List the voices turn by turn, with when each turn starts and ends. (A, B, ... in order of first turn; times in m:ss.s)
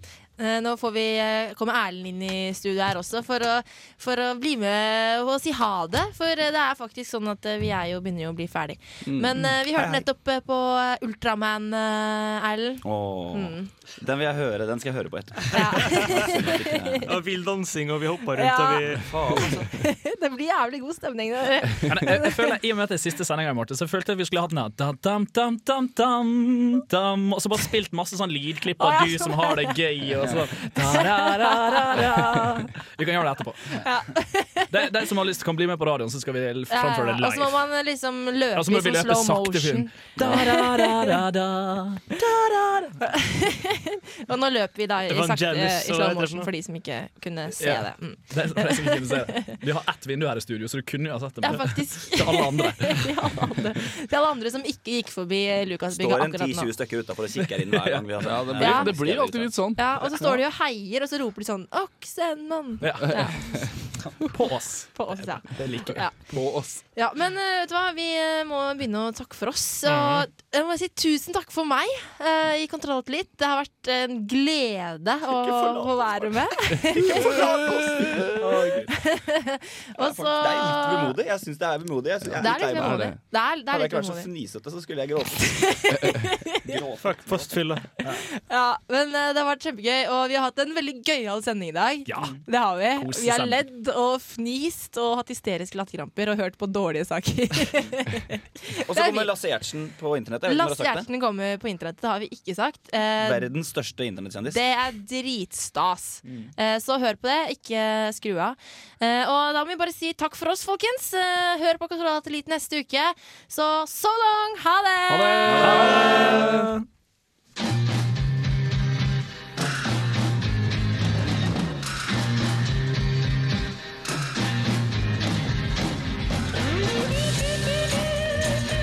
0:00.4-0:13.7 A
0:09.1-0:09.5 B
0:12.8-0:17.1 B
0:15.5-0:17.1 A
0:17.1-0:19.5 C
0:18.3-0:22.6 A
0:19.2-0:19.5 B
0:21.9-0:34.1 D
0:28.8-0:32.7 A
0:33.8-0:34.7 A
0:34.7-0:37.6 D
0:36.7-0:41.2 A
0:38.6-0:42.0 D
0:42.2-0:49.6 A
0:45.1-0:46.5 C
0:47.6-0:53.4 D
0:51.4-0:56.7 A
0:55.9-0:59.7 B
0:58.2-1:00.4 E
0:58.6-0:59.0 A
0:59.8-1:04.4 A
1:02.8-1:03.6 D
1:04.3-1:05.2 D
1:04.9-1:06.4 A
1:05.6-1:06.0 B
1:06.3-1:06.8 E
1:06.9-1:17.4 A
1:09.9-1:10.3 C
1:15.3-1:18.9 B
1:18.9-1:21.2 A
1:20.0-1:23.2 B
1:22.2-1:23.2 E
1:22.4-1:24.3 A
1:23.7-1:25.8 B
1:25.4-1:26.3 A
1:26.6-1:27.6 B
1:27.0-1:27.9 C
1:28.1-1:39.3 A
1:32.1-1:33.6 D
1:38.9-1:41.1 B
1:40.5-1:43.5 A
1:43.2-1:44.6 B
1:44.5-1:56.1 A
1:55.1-1:56.7 E
1:55.4-1:56.8 D